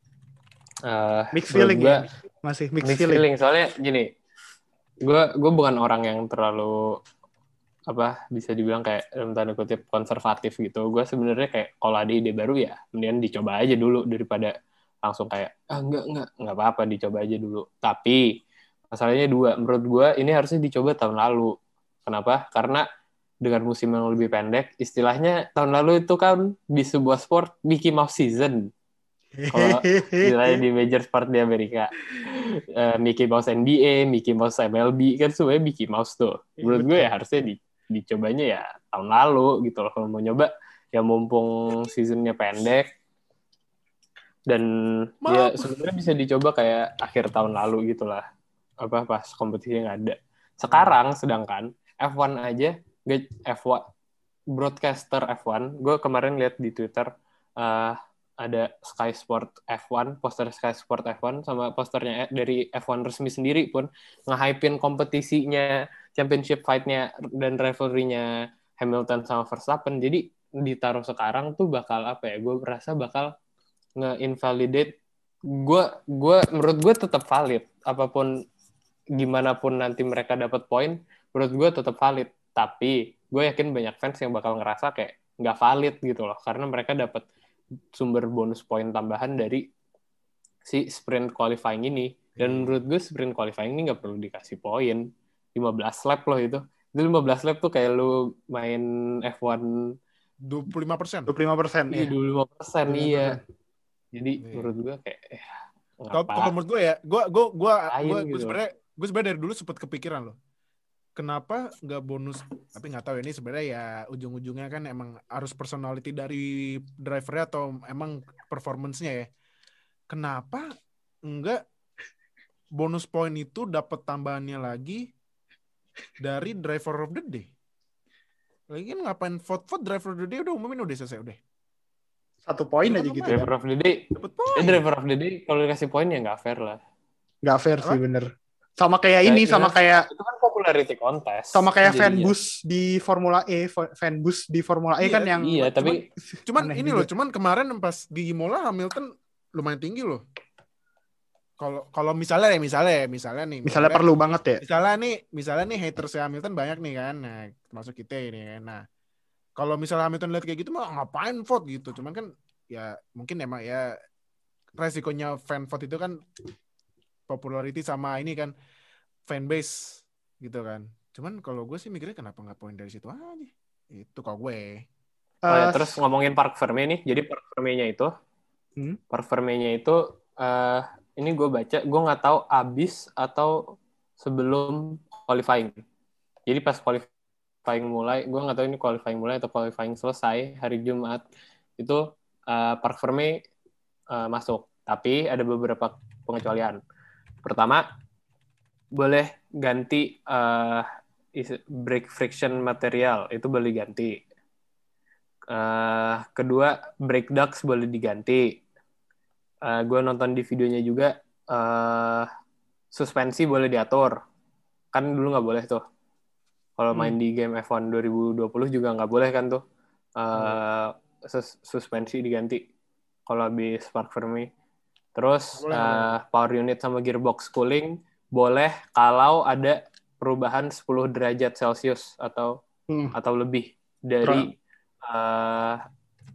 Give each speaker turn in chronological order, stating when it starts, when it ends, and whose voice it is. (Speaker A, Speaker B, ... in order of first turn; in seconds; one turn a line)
Speaker A: 0.8-2.0
Speaker B: 1.3-3.2
Speaker A: 2.8-4.1
Speaker A: 5.0-7.0
Speaker A: 7.9-14.5
Speaker A: 15.0-18.2
Speaker A: 18.9-21.5
Speaker A: 22.0-22.8
Speaker A: 23.4-28.7
Speaker B: 29.4-30.6
Speaker A: 29.5-42.9
Speaker B: 36.6-37.1
Speaker A: 44.5-48.2
Speaker C: 45.2-45.7
Speaker A: 48.8-53.8
Speaker C: 50.7-51.0
Speaker A: 54.5-68.3
Speaker A: 68.8-73.3
Speaker A: 74.0-74.9
Speaker A: 75.6-78.3
Speaker A: 79.2-87.2
Speaker A: 87.9-89.7
Speaker A: 90.7-99.9
Speaker C: 92.3-92.8
Speaker C: 100.4-101.3
Speaker B: 101.3-102.1
Speaker A: 101.9-103.4
Speaker B: 102.8-103.4
Speaker A: 104.1-106.5
Speaker C: 104.4-104.7
Speaker C: 106.1-110.3
Speaker A: 107.9-108.6
Speaker C: 111.2-119.3
Speaker C: 120.1-120.7
Speaker C: 121.2-121.6
Speaker C: 122.7-125.1
Speaker C: 126.2-127.5
Speaker C: 128.7-131.4
Speaker B: 132.4-133.5
Speaker C: 132.8-133.5
Speaker A: 133.3-134.0
Speaker C: 134.1-134.8
Speaker A: 134.5-136.8
Speaker B: 137.4-140.1
Speaker A: 139.2-142.3
Speaker B: 141.5-147.1
Speaker C: 145.0-145.5
Speaker A: 145.4-146.0
Speaker C: 146.4-150.2
Speaker C: 151.6-154.0
Speaker B: 153.7-154.6
Speaker C: 154.6-158.8
Speaker C: 159.6-164.0
Speaker C: 164.8-166.2
Speaker C: 167.3-168.5
Speaker C: 169.3-174.8
Speaker B: 175.4-176.0
Speaker A: 175.5-178.1
Speaker A: 179.1-183.6
Speaker A: 184.2-185.8
Speaker A: 186.5-187.1
Speaker A: 187.7-191.2
Speaker A: 191.8-193.4
Speaker A: 194.1-196.8
Speaker A: 197.4-197.8
Speaker A: 198.9-204.2
Speaker A: 205.5-208.5
Speaker A: 209.6-212.3
Speaker A: 212.9-214.2
Speaker A: 214.9-215.8
Speaker A: 216.8-219.6
Speaker A: 220.2-222.6
Speaker A: 223.3-224.5
Speaker A: 225.2-232.5
Speaker C: 225.5-226.2
Speaker B: 232.9-233.1
Speaker A: 233.1-234.5
Speaker A: 235.0-235.8